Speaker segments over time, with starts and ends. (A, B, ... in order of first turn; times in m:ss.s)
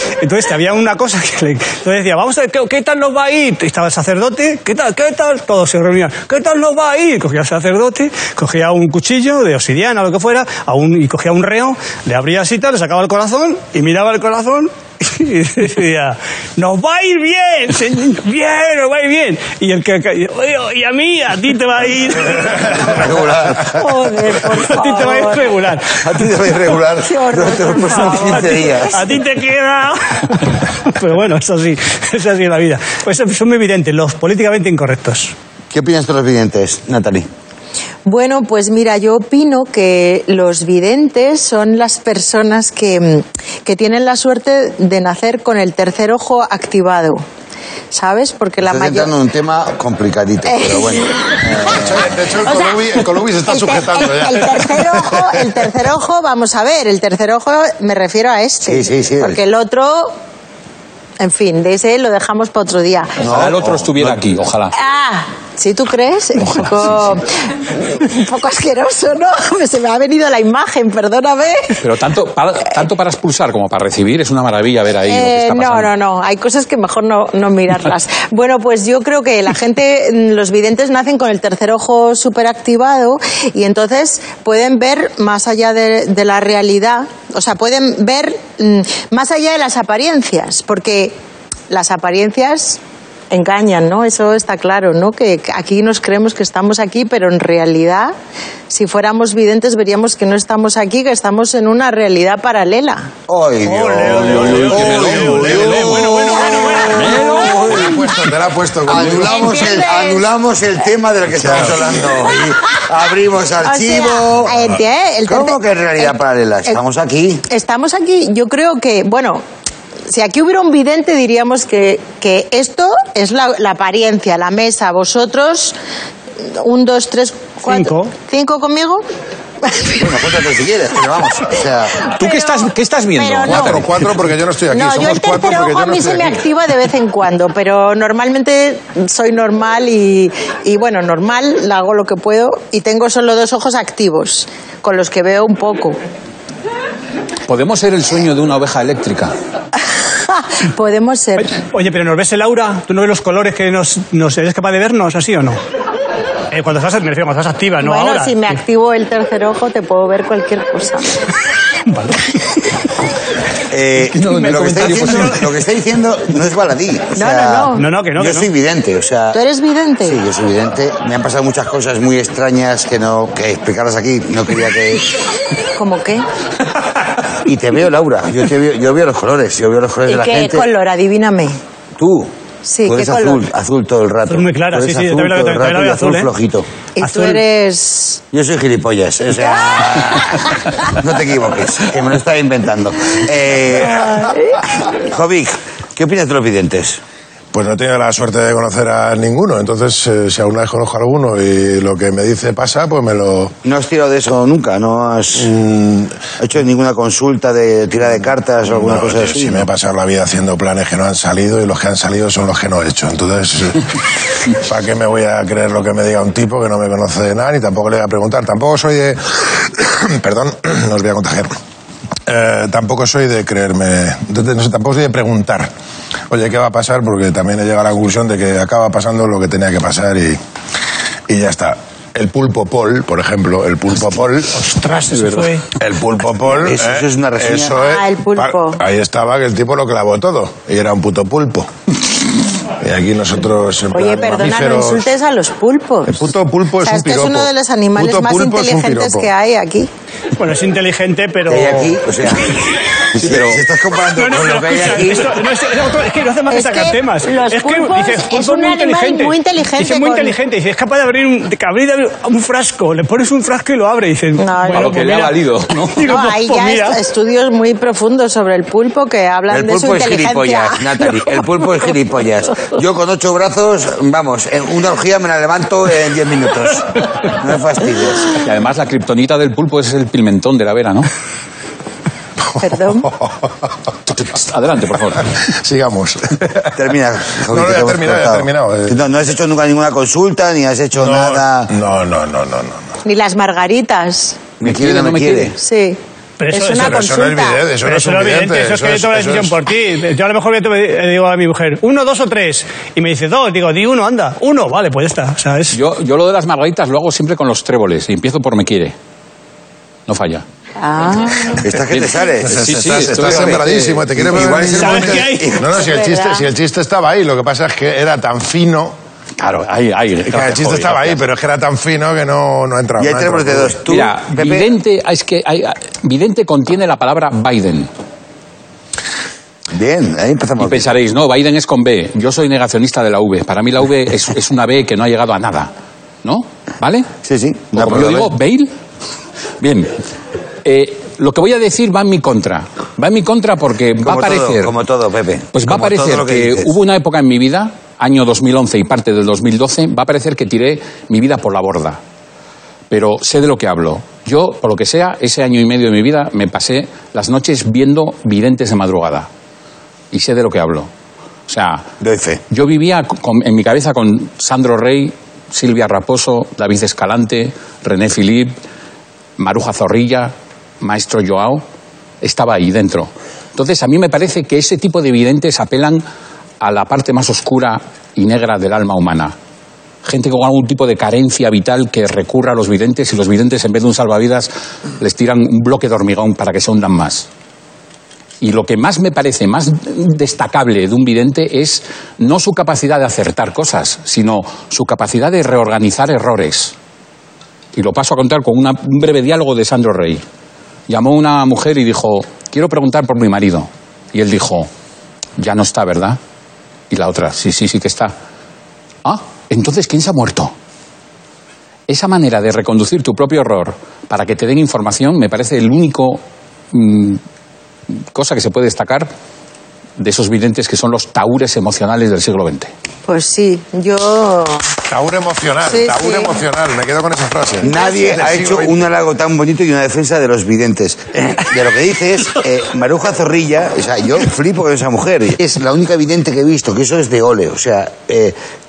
0:00.2-0:23.1 A
0:22.6-0:23.8 B
0:23.7-0:25.5 C
0:24.4-0:26.2 A
0:26.0-0:29.1 B
0:27.0-0:29.0 C
0:28.1-0:35.3 A
0:35.7-0:37.3 B
0:38.0-0:47.2 C
0:47.9-0:49.1 C
0:48.6-0:52.1 B
0:50.5-1:00.2 C
0:51.6-0:55.5 D
0:58.6-0:59.4 B
1:01.2-1:03.2 C
1:03.2-1:04.2 B
1:03.2-1:04.7 E
1:04.7-1:11.8 C
1:06.5-1:07.0 E
1:11.8-1:15.9 E
1:15.1-1:31.2 C
1:31.7-1:38.1 C
1:38.7-1:43.1 C
1:43.3-1:48.1 B
1:43.6-1:47.5 A
1:44.1-1:46.1 E
1:44.6-1:45.9 D
1:46.5-1:47.8 C
1:46.9-1:47.4 E
1:47.2-1:49.5 D
1:48.8-1:54.6 B
1:48.9-1:50.3 C
1:51.3-1:52.2 D
1:53.6-1:56.8 C
1:55.3-1:57.4 B
1:57.5-1:59.4 C
2:00.1-2:05.8 C
2:06.4-2:09.0 C
2:07.6-2:08.1 A
2:09.6-2:10.1 C
2:10.0-2:12.0 B
2:12.0-2:13.8 C
2:12.1-2:14.1 E
2:13.5-2:16.4 D
2:14.7-2:26.0 C
2:27.5-2:29.3 E
2:30.3-2:31.5 C
2:31.4-2:35.6 A
2:36.5-2:38.5 A
2:37.8-2:41.3 C
2:41.9-2:42.6 A
2:43.7-2:49.4 B
2:44.0-2:45.5 E
2:47.2-2:47.9 C
2:47.7-2:48.5 A
2:49.3-2:50.2 C
2:50.0-2:55.1 B
2:55.8-2:56.2 C
2:57.4-3:00.7 B
3:00.1-3:01.6 C
3:02.0-3:02.3 B
3:02.6-3:03.4 C
3:02.8-3:06.7 B
3:04.3-3:06.3 A
3:07.0-3:08.2 C
3:07.0-3:07.4 A
3:08.3-3:14.3 B
3:09.6-3:10.0 C
3:13.9-3:14.6 C
3:14.9-3:17.0 B
3:17.5-3:23.5 D
3:23.6-3:25.5 B
3:25.4-3:26.2 D
3:26.4-3:29.7 B
3:28.6-3:33.9 D
3:34.5-3:41.5 D
3:42.3-3:45.7 D
3:46.3-3:50.4 D
3:51.3-3:54.6 D
3:54.5-3:55.7 A
3:55.8-4:01.7 D
3:56.5-3:57.8 B
3:57.7-3:58.8 C
4:02.8-4:05.1 D
4:03.9-4:06.3 C
4:06.1-4:09.3 D
4:06.8-4:09.9 C
4:10.4-4:12.0 A
4:11.5-4:15.4 B
4:13.2-4:13.6 E
4:14.1-4:27.0 A
4:16.5-4:20.4 C
4:24.4-4:25.0 C
4:24.7-4:26.1 E
4:26.0-4:31.4 C
4:29.5-4:38.4 B
4:38.4-4:41.1 E
4:42.4-4:43.5 D
4:42.6-4:43.1 C
4:44.1-4:45.3 E
4:45.3-4:46.8 D
4:46.8-4:51.7 B
4:47.5-4:49.0 D
4:51.0-4:52.9 D
4:53.0-4:54.4 C
4:54.6-4:55.6 B
4:54.6-4:55.6 E
4:55.6-4:56.0 C
4:56.4-4:57.2 A
4:56.5-4:57.6 C
4:56.7-4:59.6 D
4:57.8-5:05.8 A
5:05.7-5:09.0 E
5:10.1-5:10.4 E
5:10.8-5:11.6 C
5:11.5-5:15.9 B
5:11.7-5:14.1 E
5:12.4-5:19.0 D
5:14.8-5:15.5 A
5:15.7-5:16.5 C
5:19.4-5:21.2 E
5:20.3-5:23.8 D
5:23.0-5:24.7 B
5:23.9-5:27.9 E
5:29.7-5:30.9 B
5:30.6-5:35.7 E
5:36.2-5:37.1 E
5:37.2-5:38.3 B
5:37.7-5:38.7 E
5:39.6-5:39.9 E
5:40.6-5:44.7 E
5:44.0-5:46.8 B
5:45.5-5:52.0 E
5:52.9-5:59.3 E
6:00.1-6:00.9 E
6:01.5-6:01.9 E
6:02.0-6:02.4 B
6:02.5-6:08.6 E
6:09.4-6:11.6 E
6:12.2-6:16.0 E
6:16.6-6:19.4 E
6:20.0-6:27.3 E
6:28.4-6:36.7 E
6:37.7-6:40.2 E
6:40.9-6:44.7 E
6:45.4-6:46.2 E
6:46.9-6:48.1 E
6:49.0-6:50.5 E
6:51.9-6:57.2 E
6:58.1-6:59.1 E
7:00.0-7:02.7 E
7:03.1-7:04.7 C
7:04.9-7:08.8 D
7:05.6-7:06.4 C
7:07.6-7:18.4 B
7:07.7-7:08.0 C